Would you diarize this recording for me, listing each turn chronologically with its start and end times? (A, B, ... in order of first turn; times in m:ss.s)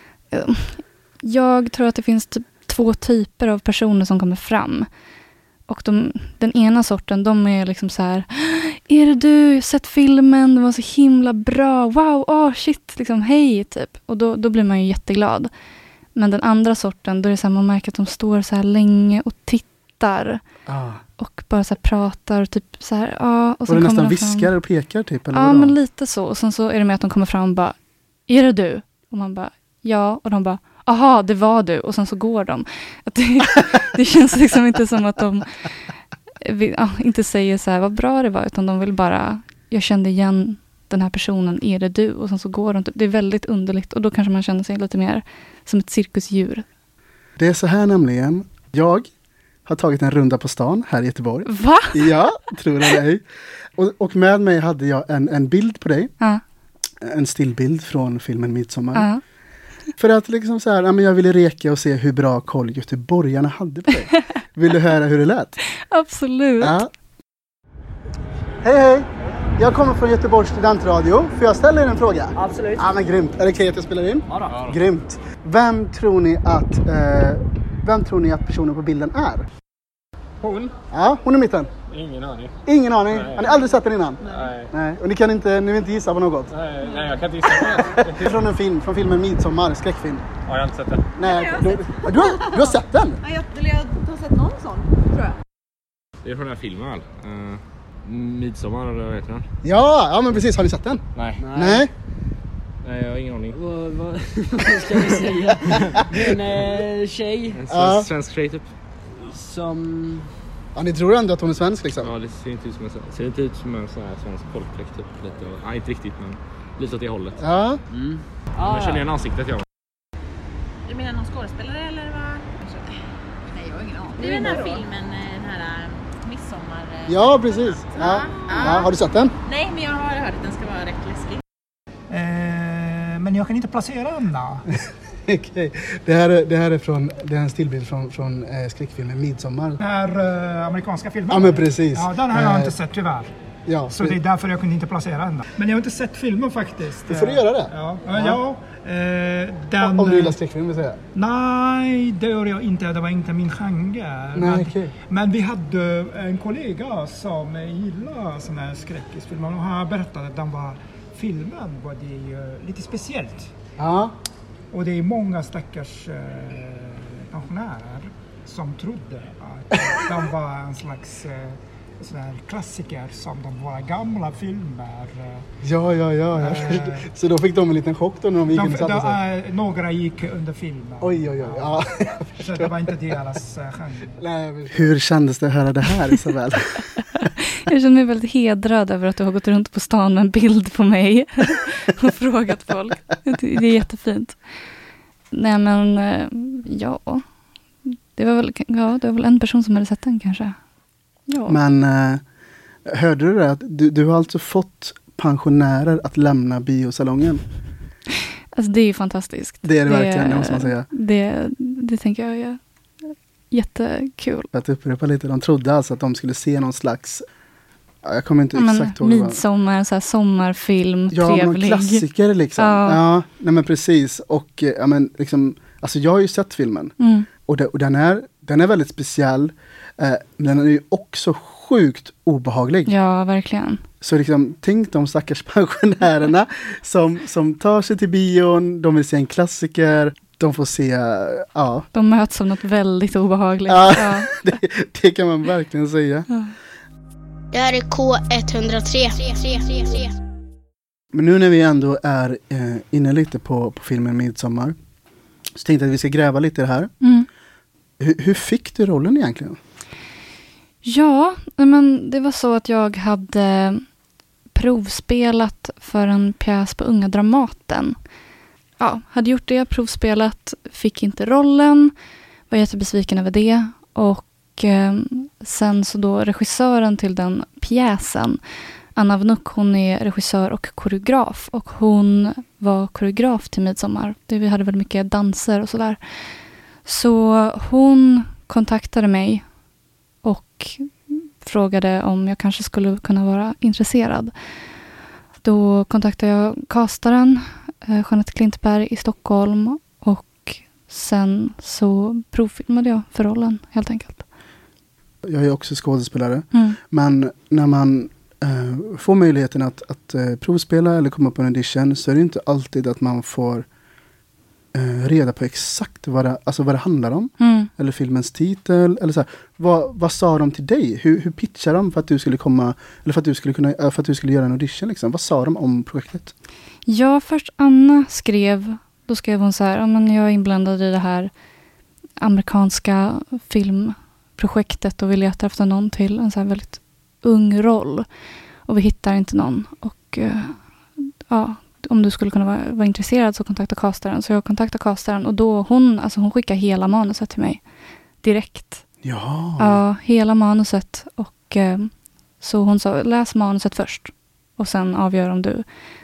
0:00.3-0:04.9 A
0:05.7-0:15.5 A
0:16.2-0:20.4 A
0:20.7-0:21.0 B
0:21.2-0:24.5 A
0:23.7-0:25.8 B
0:25.3-0:27.8 A
0:28.3-0:35.6 A
0:36.4-0:46.6 A
0:47.4-0:49.1 B
0:49.7-0:53.2 B
0:51.5-0:52.1 A
0:53.8-0:56.1 B
0:57.0-0:59.1 B
0:58.9-0:59.2 A
1:00.0-1:05.6 B
1:05.8-1:06.8 A
1:06.6-1:06.9 B
1:08.6-1:19.5 B
1:12.4-1:12.9 C
1:14.5-1:14.8 D
1:20.4-1:20.7 D
1:20.9-1:21.7 B
1:21.9-1:22.6 D
1:22.7-1:26.5 B
1:23.1-1:23.5 D
1:24.2-1:24.7 D
1:26.5-1:28.3 D
1:26.9-1:27.1 E
1:27.6-1:30.3 B
1:30.5-1:31.1 D
1:31.2-1:33.2 B
1:31.2-1:35.4 E
1:36.2-1:39.5 D
1:39.6-1:41.0 B
1:41.2-1:41.4 D
1:41.4-1:41.9 C
1:41.5-1:41.9 B
1:42.8-1:43.6 D
1:43.5-1:47.6 C
1:47.6-1:48.7 D
1:47.7-1:48.1 B
1:49.3-1:50.3 C
1:50.8-1:52.1 B
1:52.0-1:57.4 D
1:57.4-1:57.8 B
1:57.9-1:59.1 C
1:58.6-1:59.6 D
2:00.8-2:02.9 E
2:03.5-2:08.9 E
2:04.2-2:04.7 C
2:07.1-2:09.3 B
2:09.4-2:11.4 E
2:12.1-2:14.7 F
2:15.2-2:19.8 B
2:19.8-2:23.3 F
2:21.3-2:22.8 B
2:23.7-2:24.2 B
2:23.9-2:30.4 F
2:27.1-2:28.4 B
2:29.8-2:31.0 B
2:31.1-2:43.5 F
2:34.4-2:34.9 B
2:43.8-2:44.2 B
2:44.7-2:55.5 F
2:55.6-2:59.2 B
2:56.3-2:57.1 F
2:58.5-3:01.9 F
3:01.0-3:02.7 B
3:02.4-3:04.2 F
3:04.2-3:07.0 B
3:07.2-3:14.4 A
3:15.3-3:17.3 A
3:17.8-3:20.6 A
3:21.3-3:21.6 A
3:21.5-3:22.2 B
3:22.8-3:27.4 B
3:28.6-3:32.6 A
3:29.6-3:30.9 B
3:33.5-3:34.5 A
3:34.5-3:37.2 B
3:38.0-3:39.4 B
3:38.5-3:42.0 A
3:41.1-3:52.9 B
3:42.6-3:43.0 A
3:47.0-3:47.3 A
3:52.9-3:53.8 A
3:54.0-4:01.9 B
4:01.9-4:04.4 A
4:03.7-4:06.3 B
4:06.3-4:06.5 A
4:07.5-4:10.2 G
4:11.1-4:14.8 B
4:15.6-4:16.9 B
4:17.0-4:17.3 A
4:18.0-4:19.6 B
4:20.8-4:23.8 A
4:24.5-4:28.0 A
4:28.8-4:31.9 A
4:32.5-4:38.4 A
4:39.0-4:46.0 A
4:46.8-4:49.4 A
4:50.2-4:54.3 A
4:55.4-5:04.2 A
5:05.2-5:13.7 B
5:06.5-5:06.8 A
5:14.7-5:26.3 B
5:17.4-5:17.7 A
5:26.9-5:31.3 A
5:32.2-5:38.1 A
5:38.7-5:47.6 A
5:48.2-5:48.8 A
5:49.0-5:49.8 B
5:49.6-5:55.6 A